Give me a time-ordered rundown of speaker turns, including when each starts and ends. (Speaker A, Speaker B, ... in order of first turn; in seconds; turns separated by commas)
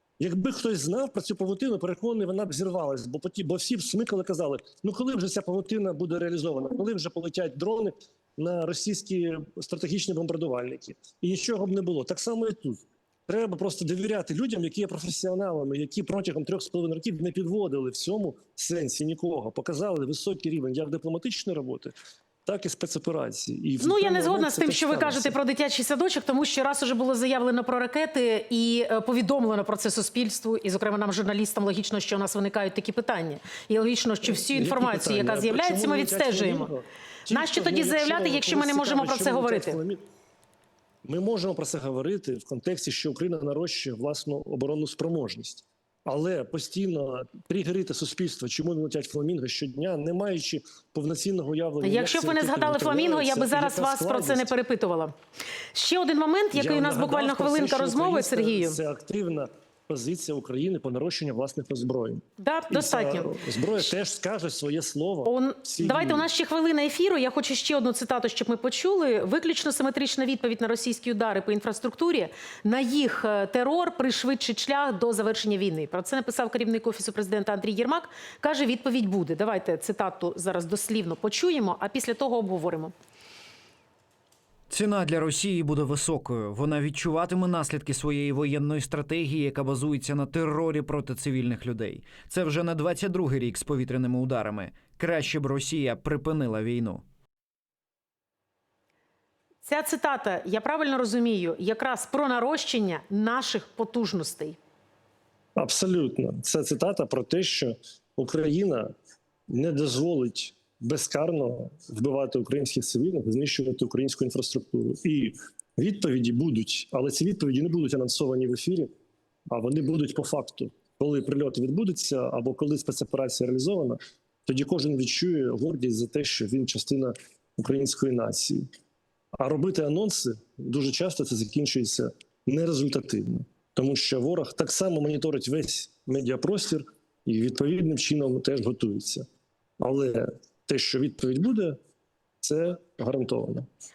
Speaker A: 0.2-21.9, Speaker A: 22.4-25.4, Speaker B: 23.8-36.7, Speaker A: 34.3-40.0, Speaker B: 37.3-39.8, Speaker A: 41.0-54.5, Speaker B: 51.8-55.1, Speaker B: 55.7-58.8, Speaker A: 56.5-66.3, Speaker B: 62.4-63.9, Speaker B: 65.2-82.9, Speaker C: 84.7-97.0, Speaker B: 99.6-104.6, Speaker A: 105.5-108.9, Speaker A: 109.5-118.9, Speaker A: 119.5-128.7, Speaker A: 129.3-139.2, Speaker A: 139.8-141.8, Speaker A: 142.4-143.7